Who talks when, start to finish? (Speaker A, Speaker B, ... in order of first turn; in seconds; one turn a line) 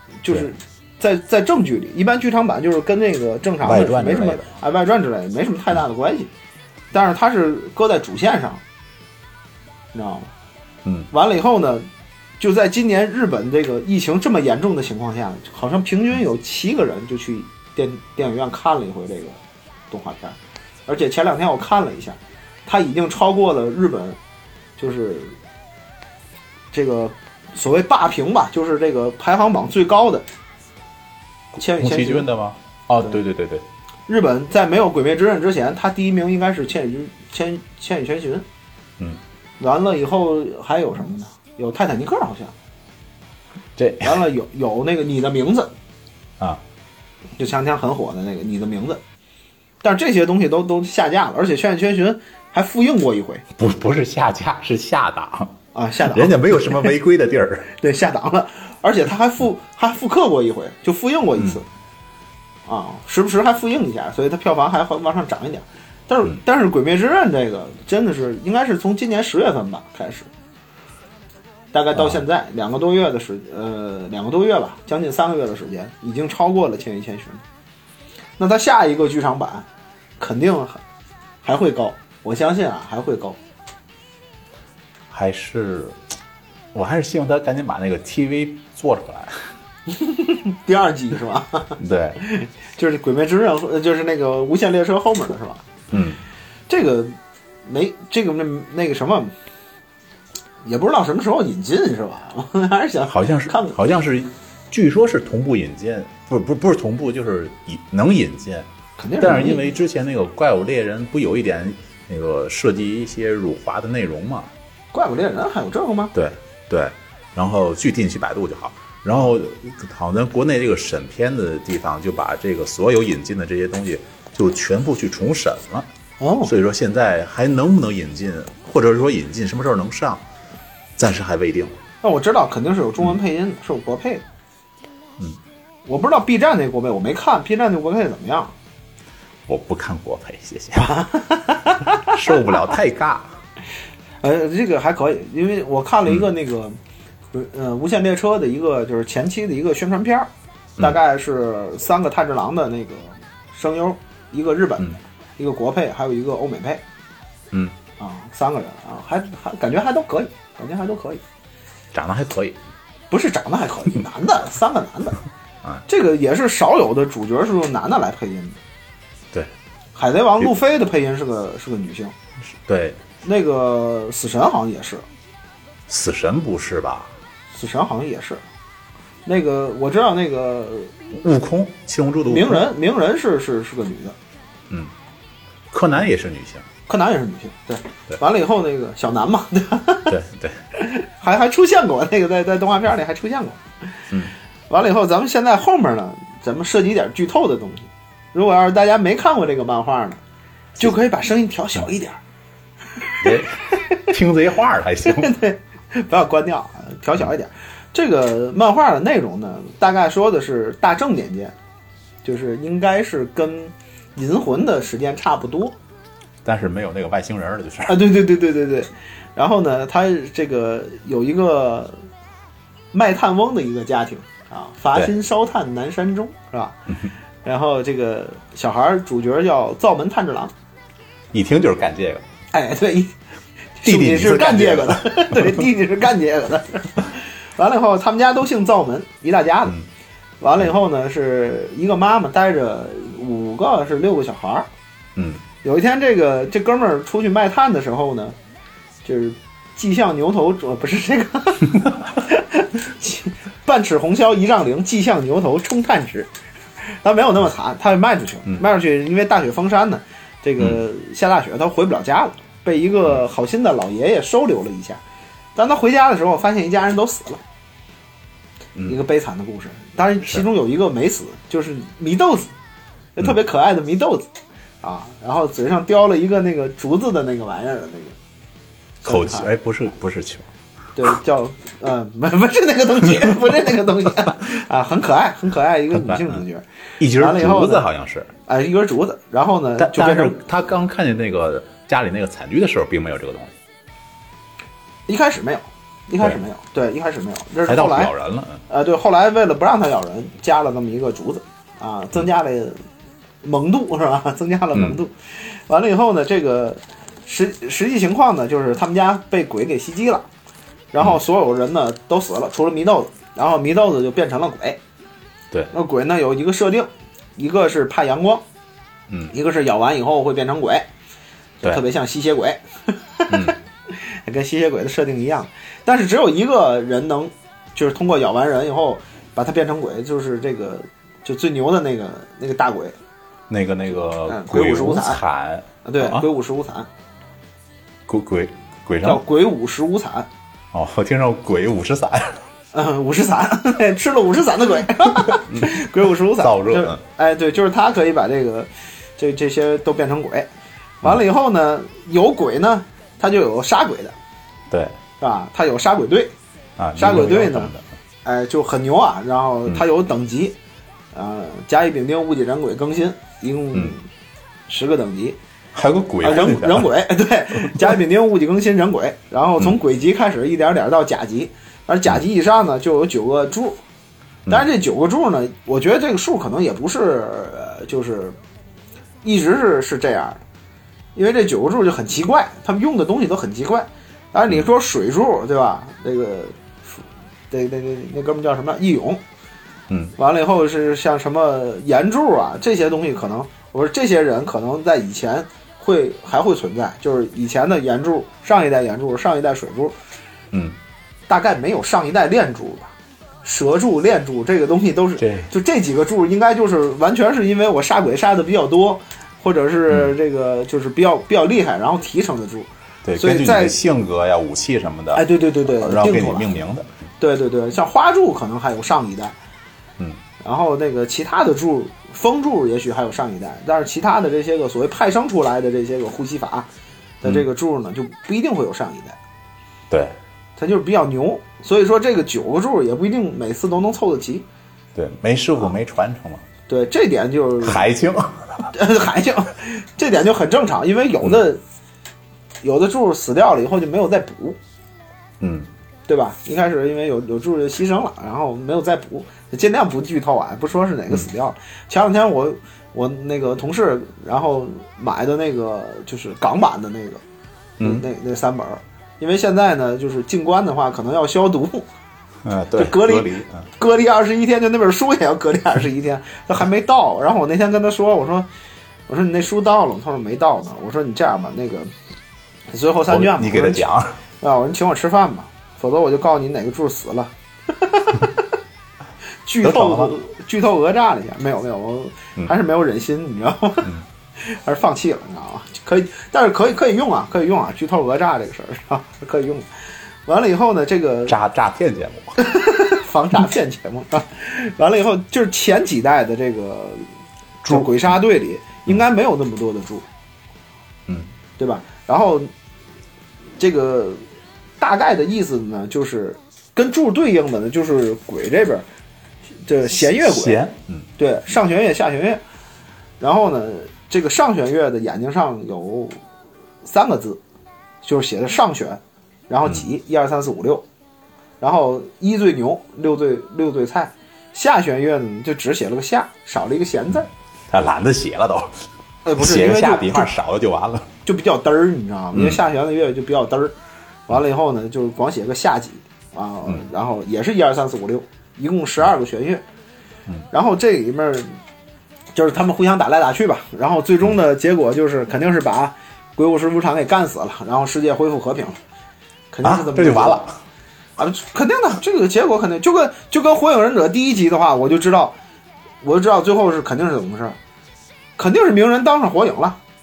Speaker A: 0.2-6.3
Speaker B: 3.6-4.5
Speaker A: 6.9-8.6
Speaker A: 9.9-10.3
Speaker A: 11.1-11.9
Speaker A: 12.4-19.4
Speaker A: 19.9-24.2
Speaker A: 24.8-25.4
Speaker A: 26.7-30.2
Speaker B: 31.6-33.6
Speaker A: 31.6-32.3
Speaker A: 34.1-38.5
Speaker A: 39.6-42.5
Speaker B: 43.8-44.2
Speaker A: 44.0-45.7
Speaker A: 47.4-49.0
Speaker A: 49.8-53.5
Speaker B: 53.6-55.6
Speaker A: 55.7-56.9
Speaker B: 56.1-57.7
Speaker A: 57.7-61.7
Speaker A: 62.7-70.3
Speaker A: 71.7-77.4
Speaker A: 78.4-79.7
Speaker A: 80.2-80.8
Speaker A: 81.4-83.4
Speaker B: 85.1-86.0
Speaker B: 86.7-89.5
Speaker A: 89.9-95.7
Speaker B: 91.8-92.2
Speaker B: 95.9-96.2
Speaker A: 96.7-99.3
Speaker A: 100.6-103.8
Speaker B: 103.1-108.7
Speaker A: 109.0-109.8
Speaker B: 109.2-114.5
Speaker A: 114.9-116.1
Speaker B: 116.1-125.9
Speaker A: 126.2-126.5
Speaker B: 126.4-130.2
Speaker B: 131.0-131.8
Speaker A: 132.0-134.2
Speaker A: 135.9-138.5
Speaker B: 139.5-141.0
Speaker A: 140.8-142.5
Speaker B: 142.0-143.3
Speaker A: 144.2-146.8
Speaker A: 147.3-156.8
Speaker B: 157.5-157.8
Speaker A: 158.0-161.2
Speaker B: 161.9-162.6
Speaker A: 163.1-165.2
Speaker A: 165.9-168.6
Speaker A: 169.9-172.1
Speaker B: 172.5-173.0
Speaker A: 173.2-175.1
Speaker B: 175.9-177.1
Speaker A: 177.5-178.4
Speaker A: 179.2-181.0
Speaker B: 181.1-182.6
Speaker A: 182.3-184.2
Speaker B: 185.7-186.7
Speaker A: 186.9-190.1
Speaker B: 190.1-190.6
Speaker A: 190.8-193.6
Speaker A: 194.7-200.2
Speaker A: 200.8-202.2
Speaker A: 203.0-204.1
Speaker B: 203.2-205.3
Speaker A: 205.1-211.5
Speaker A: 212.2-215.8
Speaker B: 216.4-218.0
Speaker A: 217.9-222.0
Speaker A: 222.9-226.8
Speaker A: 227.4-230.5
Speaker B: 231.3-232.2
Speaker A: 232.5-233.2
Speaker A: 233.8-239.8
Speaker B: 233.8-235.7
Speaker A: 240.4-244.7
Speaker B: 245.2-245.4
Speaker A: 245.6-248.4
Speaker A: 249.1-256.3
Speaker A: 257.0-265.0
Speaker A: 265.6-267.4
Speaker A: 268.9-272.5
Speaker A: 273.1-274.3
Speaker A: 274.8-278.2
Speaker A: 279.0-279.5
Speaker B: 279.0-280.5
Speaker A: 280.9-287.9
Speaker B: 285.9-286.4
Speaker B: 287.0-288.3
Speaker A: 288.5-290.4
Speaker B: 289.8-293.5
Speaker A: 295.1-298.1
Speaker B: 297.6-298.6
Speaker A: 298.7-302.8
Speaker A: 303.4-310.3
Speaker B: 304.7-305.0
Speaker A: 310.9-314.8
Speaker A: 315.7-318.4
Speaker A: 319.3-320.9
Speaker A: 321.6-332.9
Speaker B: 323.3-323.6
Speaker B: 333.5-336.3
Speaker A: 334.2-335.2
Speaker A: 335.8-336.9
Speaker B: 338.1-339.2
Speaker A: 339.0-340.3
Speaker B: 340.7-342.4
Speaker A: 342.7-350.5
Speaker B: 345.3-347.0
Speaker A: 351.0-354.1
Speaker B: 354.7-354.9
Speaker A: 355.2-356.3
Speaker B: 356.8-357.9
Speaker A: 357.0-357.7
Speaker A: 358.2-360.6
Speaker A: 361.1-364.1
Speaker A: 364.7-365.4
Speaker B: 365.7-366.9
Speaker A: 366.2-373.8
Speaker B: 367.7-367.9
Speaker A: 374.5-378.4
Speaker A: 379.2-380.4
Speaker A: 381.1-386.6
Speaker A: 387.5-389.2
Speaker B: 389.9-390.1
Speaker A: 390.2-399.9
Speaker B: 400.5-400.8
Speaker A: 401.3-413.8
Speaker B: 405.2-405.5
Speaker B: 413.1-416.9
Speaker A: 415.1-416.6
Speaker A: 417.2-419.3
Speaker A: 420.4-426.7
Speaker A: 427.2-429.2
Speaker B: 429.9-430.1
Speaker A: 430.6-434.4
Speaker B: 434.9-436.4
Speaker A: 436.7-437.8
Speaker B: 437.6-438.7
Speaker A: 438.7-441.6
Speaker A: 442.6-444.6
Speaker B: 445.4-445.7
Speaker A: 446.1-457.2
Speaker B: 457.8-458.1
Speaker A: 457.8-461.9
Speaker B: 462.4-463.6
Speaker A: 462.8-468.5
Speaker A: 469.1-471.9
Speaker A: 472.7-473.9
Speaker B: 473.1-474.2
Speaker A: 474.4-478.4
Speaker A: 479.4-489.7
Speaker B: 479.6-480.1
Speaker A: 490.3-491.4
Speaker B: 491.3-492.4
Speaker A: 492.4-497.1
Speaker B: 497.6-497.9
Speaker A: 497.7-500.1
Speaker A: 501.6-502.5
Speaker A: 503.6-504.2
Speaker A: 504.8-508.9
Speaker A: 509.6-510.6
Speaker B: 510.0-511.1
Speaker A: 511.2-512.4
Speaker A: 513.2-516.2
Speaker A: 516.8-517.4
Speaker A: 518.0-520.9
Speaker A: 521.6-527.3
Speaker B: 527.7-528.8
Speaker A: 529.2-530.3
Speaker B: 529.4-531.1
Speaker A: 531.2-533.8
Speaker B: 532.3-532.6
Speaker A: 534.3-539.6
Speaker A: 540.5-541.6
Speaker A: 542.4-548.8
Speaker A: 549.5-550.4
Speaker B: 549.6-550.6
Speaker A: 551.2-555.4
Speaker A: 556.0-557.6
Speaker A: 558.4-559.8